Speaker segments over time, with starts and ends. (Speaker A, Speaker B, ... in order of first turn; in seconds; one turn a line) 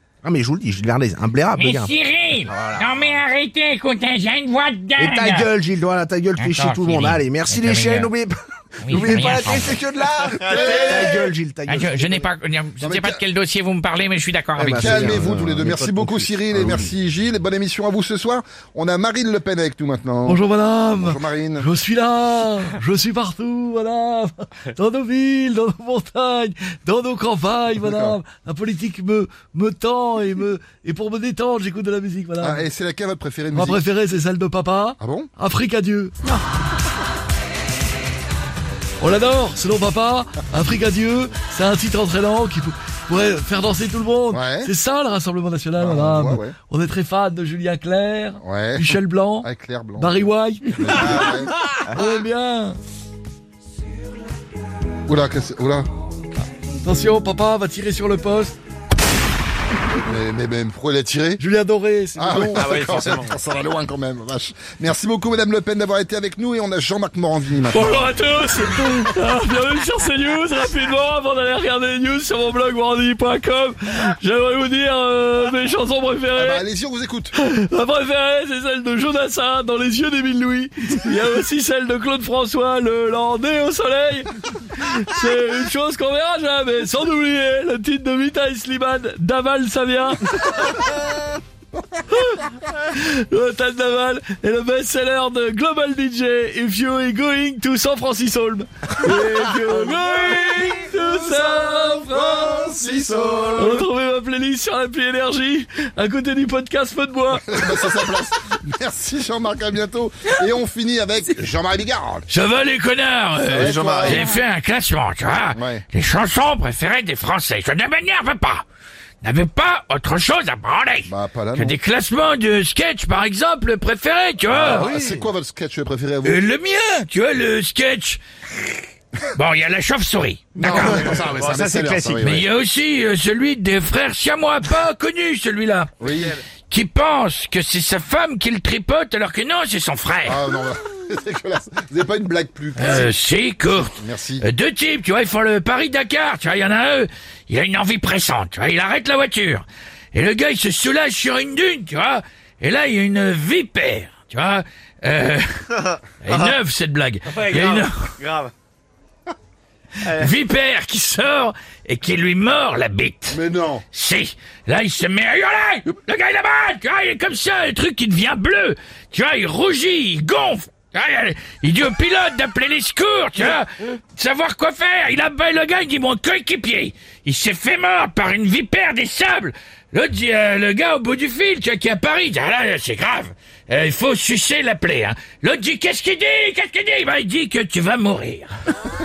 Speaker A: 0.2-1.9
Speaker B: 1.5-5.5
Speaker A: 2.5-3.2
Speaker A: 5.0-12.2
Speaker B: 6.4-8.1
Speaker B: 8.8-9.8
Speaker C: 10.5-11.3
Speaker B: 11.7-15.3
Speaker C: 12.8-13.2
Speaker A: 14.6-16.9
Speaker C: 14.8-21.7
Speaker D: 20.2-32.6
Speaker C: 27.8-28.2
Speaker C: 32.4-33.9
Speaker D: 33.5-36.1
Speaker C: 35.0-35.3
Speaker D: 39.0-51.3
Speaker C: 44.3-44.7
Speaker C: 45.8-46.6
Speaker C: 48.4-50.3
Speaker C: 50.8-51.5
Speaker D: 51.9-52.8
Speaker C: 55.1-55.9
Speaker D: 56.8-58.6
Speaker C: 60.0-61.4
Speaker D: 61.4-62.7
Speaker C: 62.2-68.7
Speaker E: 62.5-63.4
Speaker D: 67.7-76.6
Speaker C: 76.3-77.3
Speaker D: 77.3-90.9
Speaker D: 92.1-102.7
Speaker A: 102.6-103.5
Speaker C: 102.9-103.5
Speaker D: 103.5-107.5
Speaker C: 107.4-112.3
Speaker B: 112.3-118.7
Speaker C: 113.5-114.3
Speaker C: 115.5-115.8
Speaker B: 119.2-124.9
Speaker C: 121.1-121.8
Speaker C: 124.5-126.4
Speaker E: 124.9-125.2
Speaker B: 126.2-128.2
Speaker B: 129.3-131.1
Speaker C: 130.6-132.5
Speaker E: 130.8-132.2
Speaker B: 132.2-135.9
Speaker C: 136.0-136.4
Speaker E: 136.1-136.4
Speaker B: 136.7-140.4
Speaker C: 140.2-143.1
Speaker B: 142.8-158.2
Speaker C: 143.7-144.4
Speaker E: 157.3-158.5
Speaker B: 160.0-163.4
Speaker C: 163.3-163.8
Speaker B: 163.9-188.5